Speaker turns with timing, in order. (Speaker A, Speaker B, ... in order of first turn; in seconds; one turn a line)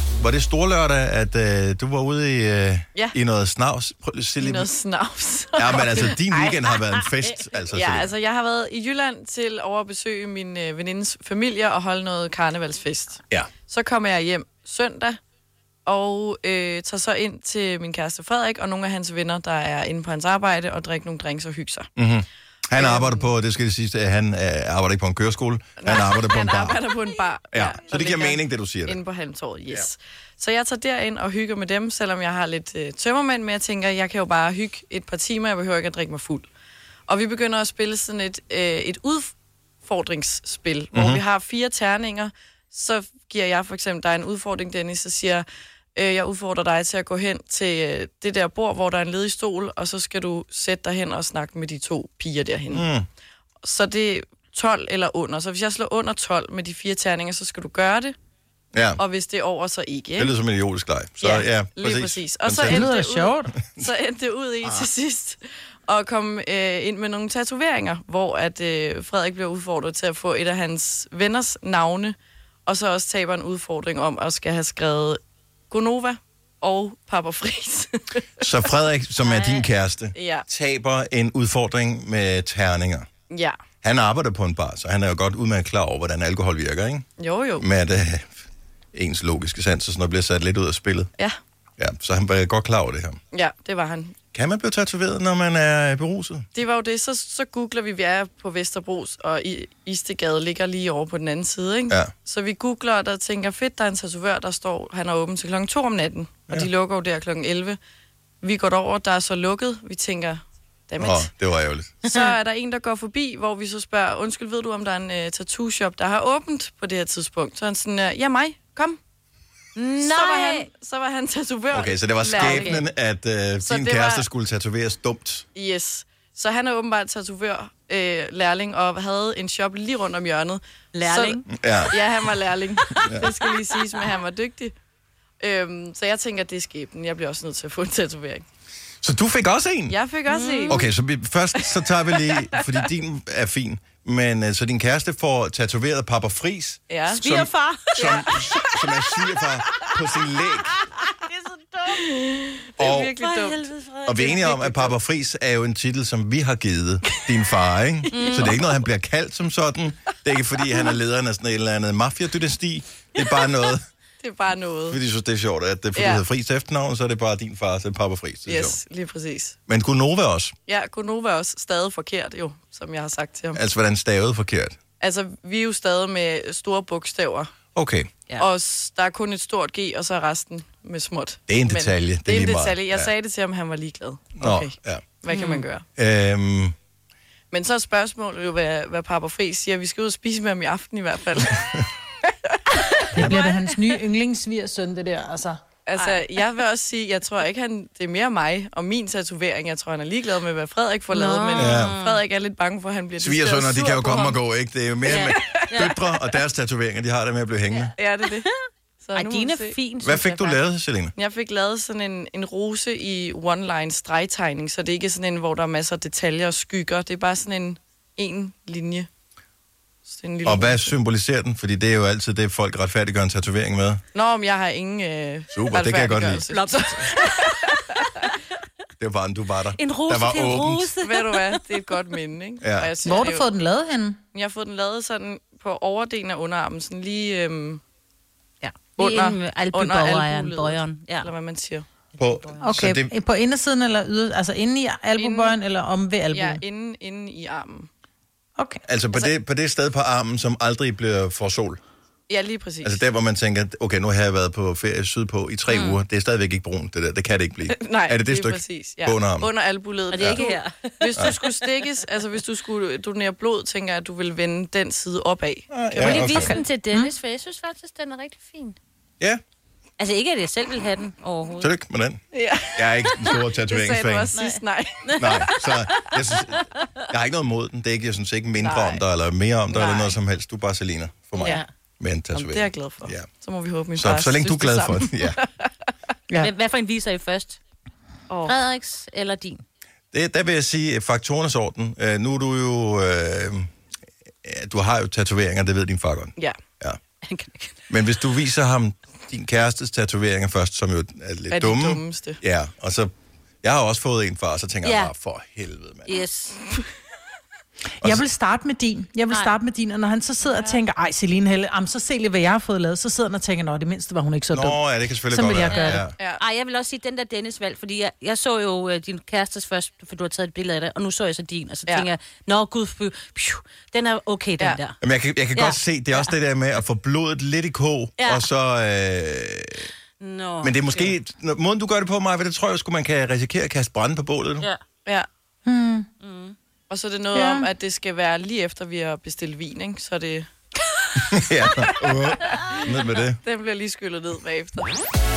Speaker A: 0.2-4.7
Speaker B: 4.4-6.5
Speaker A: 5.6-8.1
Speaker B: 7.7-15.2
Speaker B: 15.9-21.9
Speaker A: 22.0-26.8
Speaker B: 22.8-23.3
Speaker B: 25.8-36.5
Speaker A: 27.5-29.0
Speaker B: 37.1-45.5
Speaker A: 40.9-41.2
Speaker B: 46.0-52.8
Speaker A: 52.7-53.1
Speaker B: 53.6-58.1
Speaker A: 58.7-59.0
Speaker B: 59.0-60.3
Speaker A: 60.2-62.9
Speaker B: 61.2-72.2
Speaker C: 62.6-63.6
Speaker B: 72.7-75.2
Speaker B: 75.7-78.5
Speaker A: 78.4-83.1
Speaker B: 79.2-80.5
Speaker B: 83.3-83.6
Speaker A: 83.8-87.0
Speaker B: 87.2-87.7
Speaker A: 87.6-88.4
Speaker A: 88.9-91.1
Speaker A: 91.8-93.2
Speaker B: 93.3-94.2
Speaker A: 94.3-96.5
Speaker B: 96.5-107.8
Speaker B: 108.4-111.3
Speaker A: 111.0-111.9
Speaker B: 112.0-119.0
Speaker D: 119.8-120.7
Speaker B: 120.0-122.8
Speaker A: 121.7-125.5
Speaker D: 122.4-122.8
Speaker B: 123.6-124.3
Speaker B: 125.5-134.7
Speaker D: 130.9-131.5
Speaker A: 131.5-132.0
Speaker D: 132.8-134.1
Speaker A: 133.0-133.3
Speaker B: 135.4-138.4
Speaker A: 139.0-140.0
Speaker B: 139.9-140.8
Speaker D: 140.3-140.9
Speaker A: 140.7-150.7
Speaker B: 141.6-142.6
Speaker B: 146.9-147.4
Speaker D: 147.1-148.7
Speaker B: 147.9-148.8
Speaker D: 149.7-152.0
Speaker B: 151.9-153.7
Speaker A: 152.8-153.1
Speaker D: 153.2-154.6
Speaker A: 154.1-163.8
Speaker B: 154.5-154.9
Speaker B: 158.1-158.5
Speaker D: 158.1-158.7
Speaker B: 164.2-165.0
Speaker A: 164.9-168.8
Speaker B: 166.0-166.2
Speaker B: 168.5-169.6
Speaker A: 169.7-170.5
Speaker B: 170.7-173.6
Speaker A: 173.6-174.8
Speaker B: 175.0-177.5
Speaker A: 177.8-178.1
Speaker B: 178.4-185.8
Speaker A: 181.5-183.1
Speaker A: 184.4-185.1
Speaker D: 185.3-185.7
Speaker A: 186.0-186.7
Speaker B: 187.5-191.9
Speaker B: 192.5-193.3
Speaker C: 193.1-195.6
Speaker D: 193.2-193.6
Speaker B: 195.9-204.4
Speaker D: 196.0-196.2
Speaker D: 201.1-202.2
Speaker A: 201.6-202.0
Speaker A: 203.2-207.9
Speaker D: 205.1-206.0
Speaker B: 205.1-206.0
Speaker D: 207.7-208.5
Speaker B: 208.0-208.5
Speaker B: 209.0-209.8
Speaker D: 209.1-210.6
Speaker A: 210.0-211.1
Speaker B: 211.2-219.1
Speaker B: 220.1-220.9
Speaker A: 220.4-224.0
Speaker B: 224.1-228.0
Speaker A: 225.5-226.5
Speaker D: 226.5-228.4
Speaker A: 229.0-230.9
Speaker D: 229.7-231.8
Speaker B: 231.0-233.5
Speaker A: 232.6-232.9
Speaker C: 233.0-234.2
Speaker B: 234.3-237.8
Speaker D: 238.6-241.3
Speaker B: 238.9-241.9
Speaker D: 242.2-242.7
Speaker A: 242.2-243.1
Speaker C: 242.6-246.6
Speaker B: 245.2-245.6
Speaker B: 246.3-247.9
Speaker C: 248.6-248.8
Speaker A: 248.9-251.8
Speaker B: 252.3-253.0
Speaker A: 252.8-259.5
Speaker D: 255.7-256.0
Speaker B: 257.7-266.7
Speaker D: 260.1-262.0
Speaker A: 260.2-260.5
Speaker A: 265.7-266.6
Speaker D: 266.0-268.7
Speaker C: 266.1-267.1
Speaker D: 270.0-271.7
Speaker A: 271.6-272.2
Speaker B: 272.3-276.2
Speaker A: 272.8-274.3
Speaker D: 274.3-275.5
Speaker A: 275.2-283.3
Speaker B: 278.6-279.0
Speaker D: 279.7-280.2
Speaker B: 279.8-280.0
Speaker D: 281.4-281.7
Speaker B: 281.4-281.6
Speaker B: 282.3-285.7
Speaker A: 284.0-285.4
Speaker D: 286.4-287.6
Speaker B: 288.3-288.6
Speaker D: 288.5-289.6
Speaker A: 290.1-293.7
Speaker A: 294.4-297.0
Speaker D: 297.2-297.8
Speaker A: 297.9-303.1
Speaker B: 301.5-302.4
Speaker A: 303.6-306.2
Speaker D: 304.8-305.1
Speaker D: 306.1-306.6
Speaker C: 308.0-316.1
Speaker D: 309.3-309.6
Speaker B: 310.4-310.8
Speaker A: 314.5-316.1
Speaker D: 315.6-325.0
Speaker B: 316.2-316.4
Speaker A: 325.0-329.9
Speaker D: 325.6-326.3
Speaker D: 328.2-328.5
Speaker D: 330.2-331.1
Speaker A: 330.6-334.7
Speaker C: 335.7-336.1
Speaker D: 336.2-336.6
Speaker B: 336.9-340.5
Speaker C: 337.3-337.7
Speaker A: 341.2-343.4
Speaker B: 341.7-345.0